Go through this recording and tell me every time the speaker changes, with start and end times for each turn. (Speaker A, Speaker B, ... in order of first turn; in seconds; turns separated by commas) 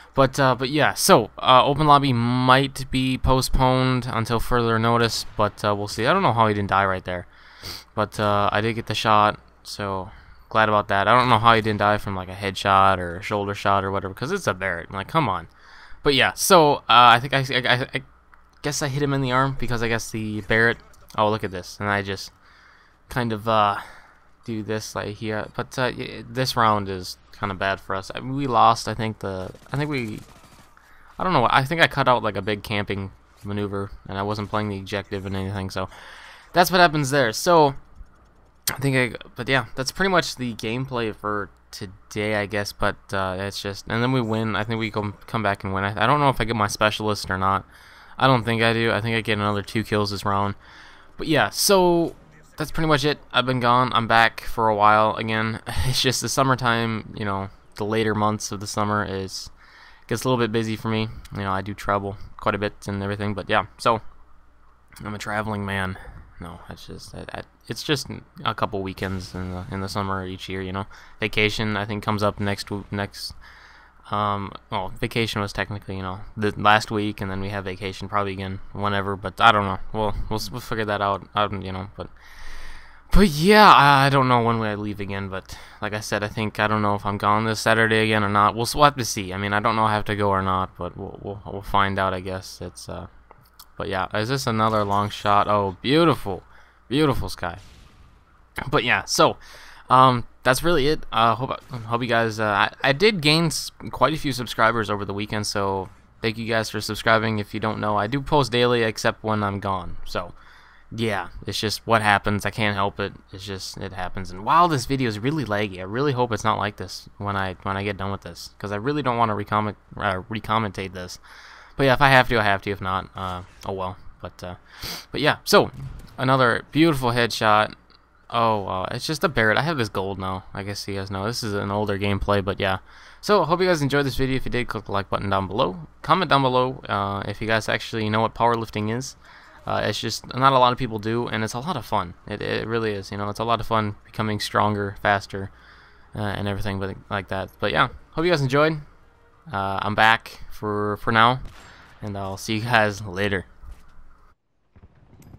Speaker A: 0.1-7.3, Speaker A: 7.9-15.5, Speaker A: 16.0-18.1, Speaker A: 18.6-22.3, Speaker A: 23.1-30.2, Speaker A: 31.2-37.8, Speaker A: 38.7-47.6, Speaker A: 48.2-50.6, Speaker A: 51.2-59.5, Speaker A: 60.1-64.0, Speaker A: 65.0-73.3, Speaker A: 74.1-82.1, Speaker A: 83.1-93.1, Speaker A: 93.8-97.6, Speaker A: 98.6-110.3, Speaker A: 110.9-121.2, Speaker A: 121.8-127.7, Speaker A: 128.3-145.5, Speaker A: 146.1-148.8, Speaker A: 149.5-151.4, Speaker A: 152.0-153.5